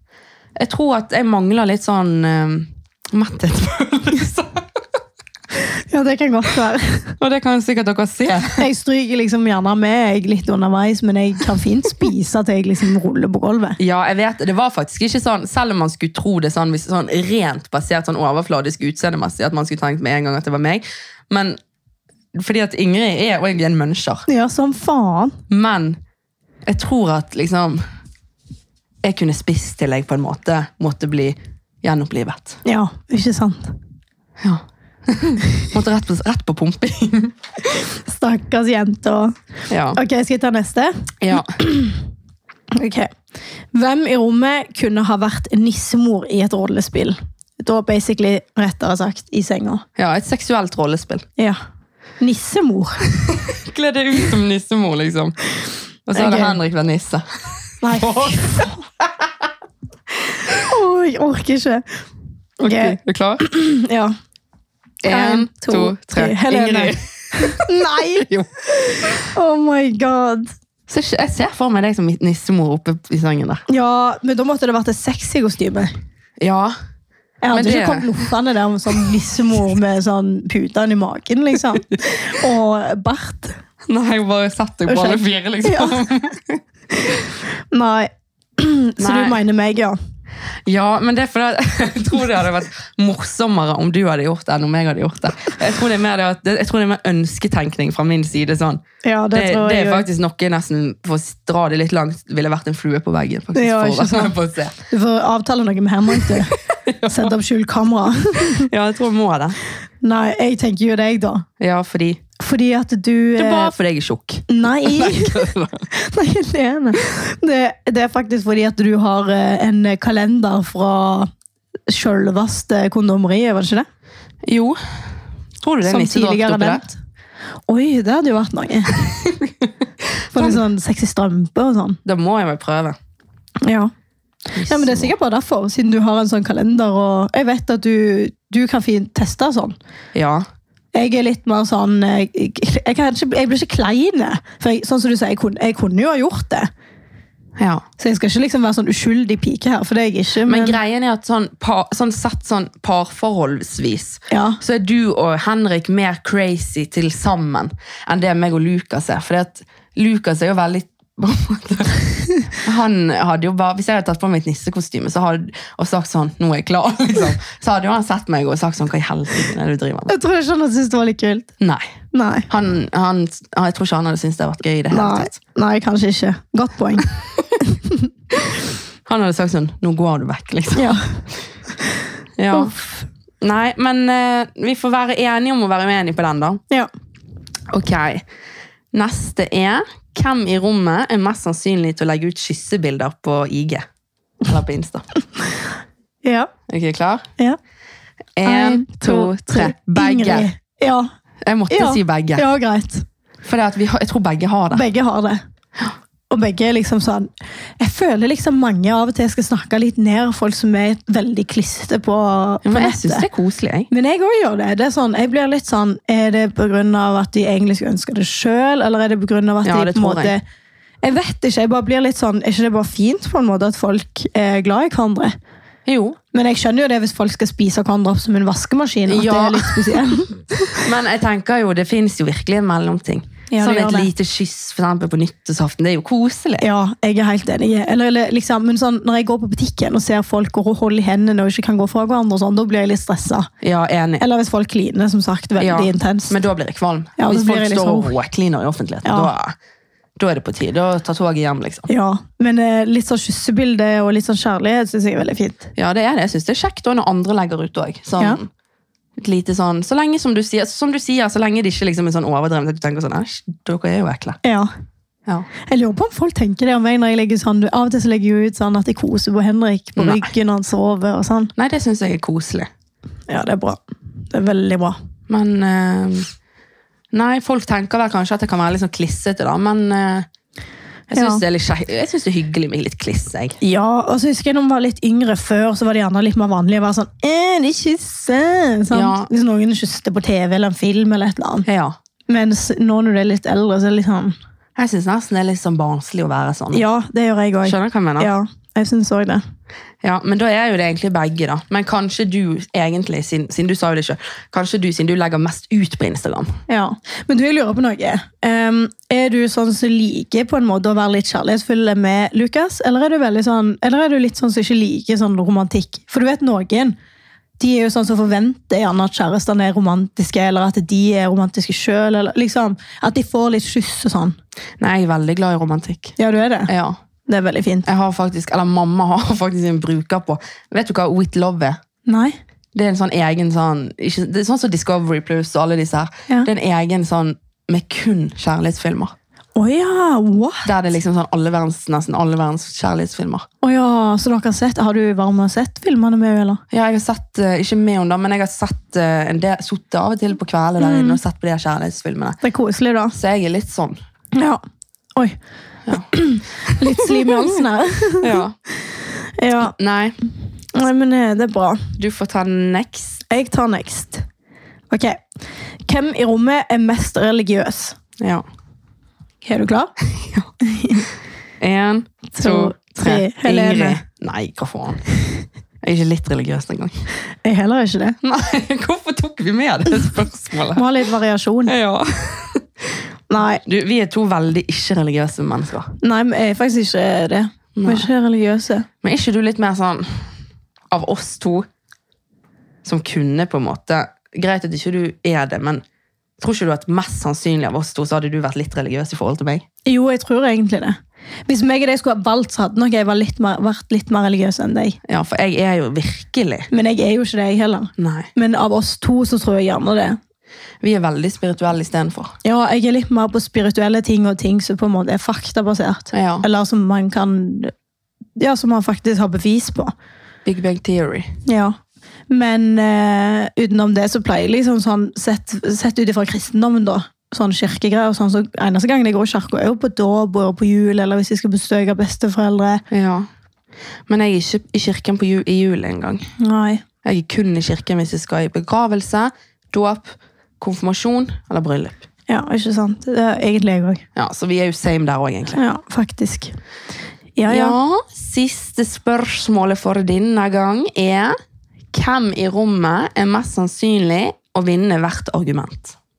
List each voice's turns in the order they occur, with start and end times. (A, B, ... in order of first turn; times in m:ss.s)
0:00.6-0:04.8 A
0:05.9-0:07.2 B
0:07.2-0:08.6 A
0:08.5-0:13.8 B
0:13.8-0:21.6 A
0:22.3-0:24.2 A
0:24.3-0:25.4 B
0:25.5-0:26.0 A
0:26.6-0:27.8 A
0:29.0-0:32.6 A
0:32.6-0:33.8 B
0:34.4-0:37.4 A
0:38.0-0:39.4 B
0:39.7-0:40.0 A
0:39.9-0:42.0 B
0:41.2-0:41.6 A
0:42.7-0:43.1 B
0:43.7-0:49.8 B
0:50.0-0:51.2 A
0:52.2-0:53.1 B
0:53.3-0:55.4 A
0:56.1-0:57.2 A
0:56.1-0:56.6 B
0:57.8-0:58.8 B
0:57.8-0:59.3 A
1:00.5-1:01.8 B
1:02.6-1:04.1 B
1:02.6-1:03.4 A
1:05.0-1:08.5 A
1:05.0-1:08.3 B
1:08.8-1:10.5 B
1:10.9-1:13.6 A
1:13.7-1:15.9 B
1:16.4-1:16.7 A
1:17.4-1:23.6 B
1:17.5-1:18.2 A
1:23.9-1:26.6 A
1:24.9-1:26.0 B
1:27.7-1:30.0 B
1:29.0-1:29.4 A
1:30.6-1:38.8 A
1:39.0-1:40.0 B
1:39.3-1:44.7 A
1:43.5-1:44.4 B
1:44.9-1:46.6 B
1:46.2-1:47.3 A
1:47.1-1:48.7 B
1:48.4-1:49.6 A
1:50.0-1:51.4 B
1:51.6-1:52.2 A
1:52.4-1:53.7 B
1:53.4-1:55.9 A
1:54.5-2:01.3 B
2:01.9-2:03.8 B
2:04.4-2:04.8 A
2:05.6-2:06.9 A
2:05.8-2:07.0 B
2:07.7-2:09.0 B
2:09.0-2:09.7 A
2:10.3-2:10.6 A
2:10.3-2:12.0 B
2:12.0-2:13.0 A
2:13.6-2:13.9 B
2:14.5-2:15.1 A
2:14.6-2:19.8 B
2:20.1-2:20.4 A
2:20.9-2:26.7 B
2:27.6-2:27.8 A
2:28.0-2:30.8 B
2:30.4-2:50.1 A
2:34.3-2:34.6 B
2:50.1-2:51.5 B
2:51.6-2:51.9 A
2:52.1-2:52.5 B
2:52.5-2:55.4 A
2:54.9-2:58.1 B
2:59.0-3:01.0 A
3:00.8-3:01.2 B
3:02.4-3:02.7 A
3:02.5-3:03.0 B
3:03.4-3:06.6 A
3:07.7-3:08.2 A
3:08.9-3:13.8 A
3:14.4-3:15.0 A
3:16.2-3:16.5 B
3:16.7-3:17.2 A
3:18.4-3:20.5 A
3:18.4-3:21.1 B
3:21.4-3:22.4 A
3:21.7-3:23.0 B
3:23.4-3:24.8 A
3:24.7-3:25.4 B
3:26.3-3:33.3 B
3:32.6-3:33.9 A
3:33.9-3:40.4 B
3:39.6-3:40.3 A
3:41.0-3:45.3 B
3:45.8-3:46.2 A
3:46.3-3:50.8 B
3:49.1-3:50.1 A
3:50.7-3:56.6 A
3:53.5-3:54.1 B
3:56.6-4:03.5 B
4:03.6-4:04.2 A
4:04.2-4:06.4 B
4:05.6-4:09.5 A
4:07.2-4:08.1 B
4:09.0-4:09.3 B
4:10.2-4:11.9 A
4:11.9-4:15.7 B
4:15.8-4:18.5 A
4:19.2-4:24.4 A
4:24.4-4:24.7 B
4:25.7-4:31.5 B
4:30.0-4:30.3 A
4:31.6-4:32.7 A
4:33.3-4:35.0 B
4:35.3-4:36.3 A
4:37.1-4:40.3 A
4:41.1-4:43.6 A
4:41.1-4:41.4 B
4:43.6-4:51.7 B
4:48.9-4:49.3 A
4:51.6-4:52.0 A
4:52.3-4:54.3 B
4:54.8-4:56.8 A
4:56.7-4:59.4 B
4:57.6-4:58.3 A
5:00.0-5:06.5 A
5:06.7-5:17.0 B
5:17.6-5:24.4 B
5:24.8-5:26.2 A
5:26.2-5:26.7 B
5:26.7-5:27.0 A
5:27.3-5:27.9 B
5:27.8-5:31.8 A
5:32.1-5:32.4 B
5:32.7-5:39.1 A
5:39.6-5:40.6 B
5:40.6-5:43.4 A
5:43.6-5:46.6 B
5:46.7-5:52.4 A
5:50.8-5:51.2 B
5:52.4-5:53.2 B
5:53.1-5:54.0 A
5:54.3-5:54.6 B
5:56.0-5:58.4 B
5:56.7-5:57.6 A
5:58.2-5:58.5 A
5:59.2-5:59.7 B
5:59.6-6:00.2 A
6:00.7-6:01.9 B
6:02.0-6:03.2 A
6:03.3-6:04.2 B
6:04.9-6:05.2 B
6:05.9-6:08.0 B
6:08.2-6:08.4 A
6:09.4-6:09.9 B
6:10.2-6:10.5 A
6:10.6-6:11.0 B
6:11.6-6:15.0 A
6:12.4-6:14.0 B
6:15.8-6:17.1 A
6:17.4-6:18.2 B
6:18.2-6:20.9 A
6:20.7-6:21.7 B
6:21.7-6:22.9 A
6:23.3-6:23.6 B
6:23.6-6:25.9 A
6:26.0-6:28.9 B
6:27.7-6:28.1 A
6:29.0-6:30.2 A
6:30.9-6:31.6 A
6:32.8-6:35.8 A
6:36.4-6:39.6 A
6:39.8-6:41.0 B
6:41.5-6:45.0 B
6:45.0-6:46.7 A
6:46.7-6:50.2 B
6:48.0-6:48.3 A
6:50.8-6:52.3 A
6:52.4-6:57.7 B
6:56.1-6:56.4 A
6:58.4-6:59.9 B
7:00.4-7:01.3 A
7:01.4-7:01.8 B
7:02.3-7:12.8 B
7:12.9-7:13.3 A
7:14.1-7:16.3 A
7:16.4-7:16.8 B
7:17.0-7:22.0 A
7:22.3-7:24.0 B
7:24.2-7:25.6 A
7:25.5-7:26.6 B
7:27.4-7:27.8 B
7:27.5-7:31.3 A
7:31.9-7:36.0 A